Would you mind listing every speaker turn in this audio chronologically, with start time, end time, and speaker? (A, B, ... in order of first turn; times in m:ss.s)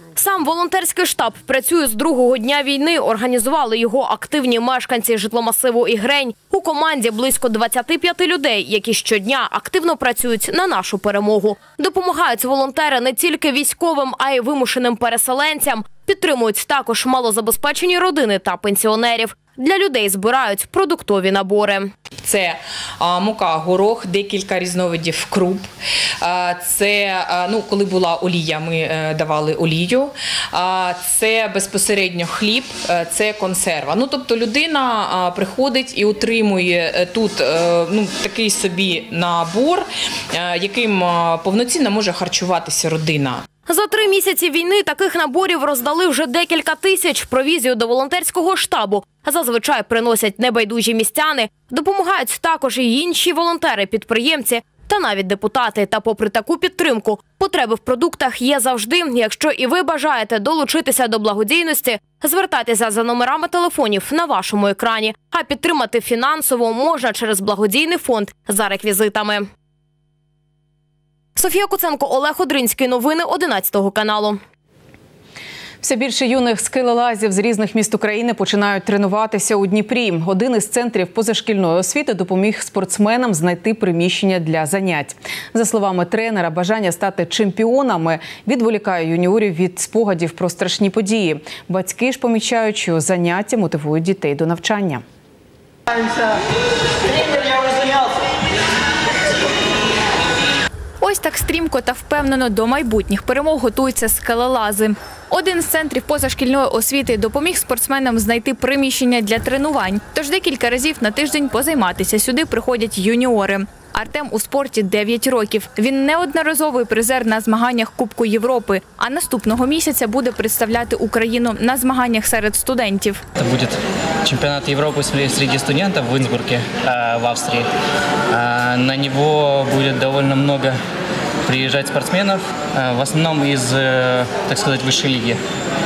0:00.2-0:21.9 A
0:22.2-0:25.7 B
0:26.2-0:43.4 B
0:43.7-1:09.4 A
1:11.4-1:14.4 A
1:15.8-1:35.0 C
1:41.0-2:03.2 D
2:03.4-2:07.7 E
2:08.3-2:10.8 E
2:11.5-2:15.4 E